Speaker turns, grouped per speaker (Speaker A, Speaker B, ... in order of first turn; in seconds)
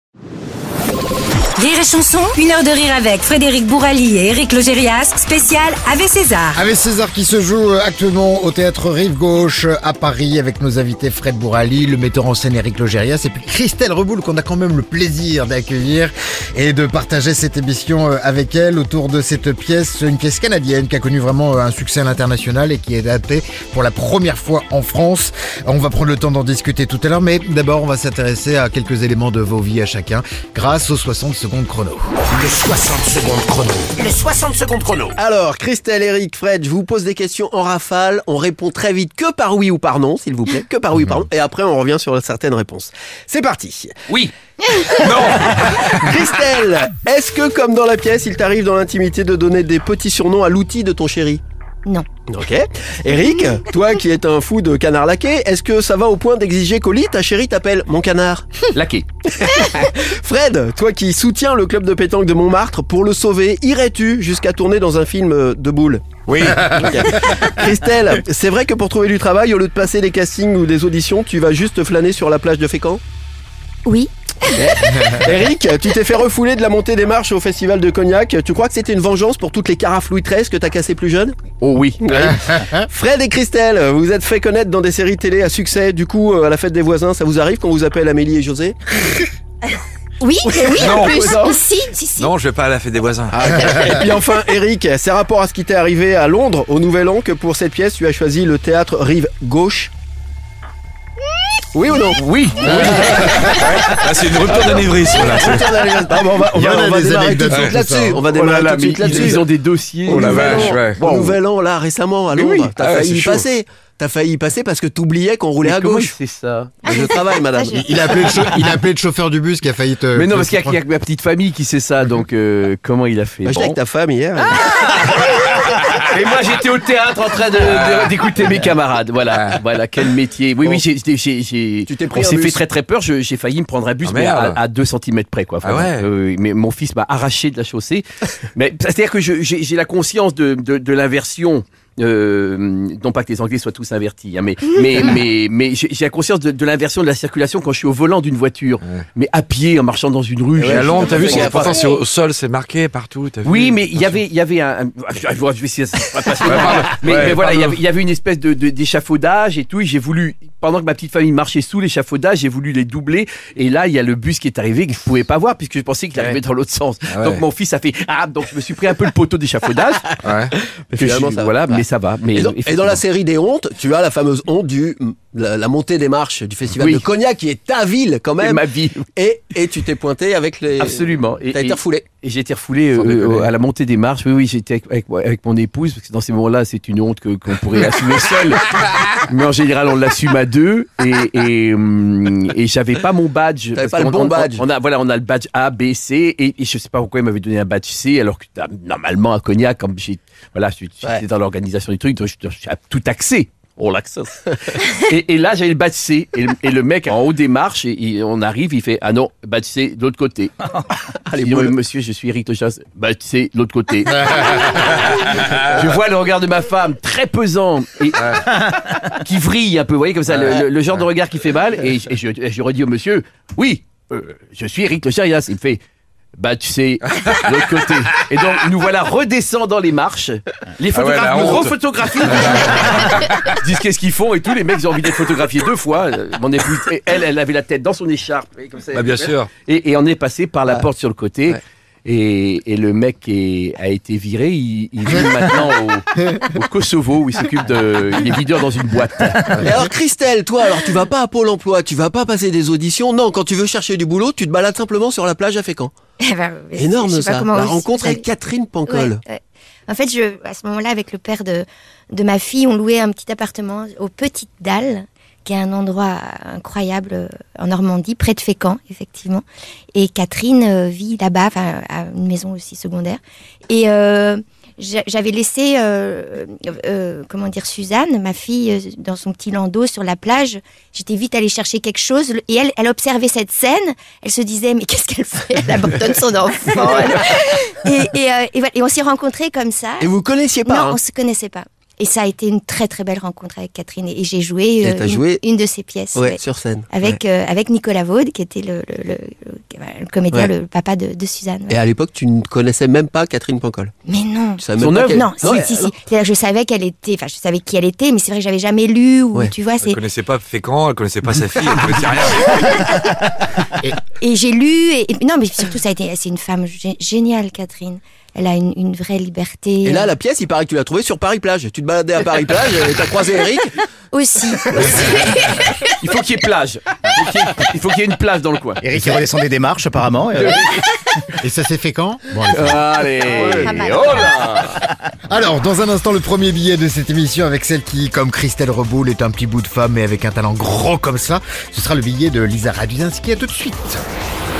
Speaker A: 1.6-6.6
Speaker B: 6.5-32.1, 106.5-108.2, 117.7-120.8, 331.4-332.8, 335.3-344.0
Speaker C: 32.3-35.1
Speaker D: 35.2-43.9, 46.0-51.4, 52.3-58.5, 59.3-73.0, 74.6-81.3, 82.0-88.8, 90.6-91.6, 93.3-99.9, 101.7-103.2, 104.5-109.4, 110.1-116.1, 116.9-117.8, 123.4-124.6, 131.9-132.6, 150.8-151.8, 170.9-178.6, 179.2-182.0, 193.8-194.6, 211.3-211.8, 249.6-255.9, 256.8-259.2, 290.0-291.0, 294.8-295.4, 296.1-297.2, 301.7-303.9, 304.6-305.9, 319.8-323.7
Speaker E: 44.7-45.0, 51.9-52.2, 73.8-75.1, 90.2-92.3, 116.8-118.3, 256.2-258.3, 258.9-269.4, 269.9-290.1, 290.6-301.8, 304.1-310.0, 312.3-313.0, 314.0-320.1, 324.1-325.8, 333.5-334.4
Speaker F: 45.0-46.2, 66.4-66.9, 90.7-91.3, 92.2-93.9, 102.6-105.8, 107.5-107.8, 108.9-109.4, 110.0-111.0, 112.3-113.5, 127.7-128.4, 134.0-134.6, 135.6-136.1, 150.6-154.2, 156.4-157.8, 167.1-167.4, 170.2-170.5, 230.9-233.5, 238.9-239.5, 309.8-312.8
Speaker G: 58.7-59.0, 81.6-82.5, 102.2-103.4, 108.2-111.4, 115.6-116.8, 120.2-123.8, 124.5-151.9, 153.4-170.2, 170.9-173.0, 176.8-177.1, 178.4-179.1, 180.8-210.5, 211.3-225.8, 226.4-249.6, 304.8-305.6, 325.7-329.1, 330.4-330.8, 332.5-334.8
Speaker H: 328.8-330.8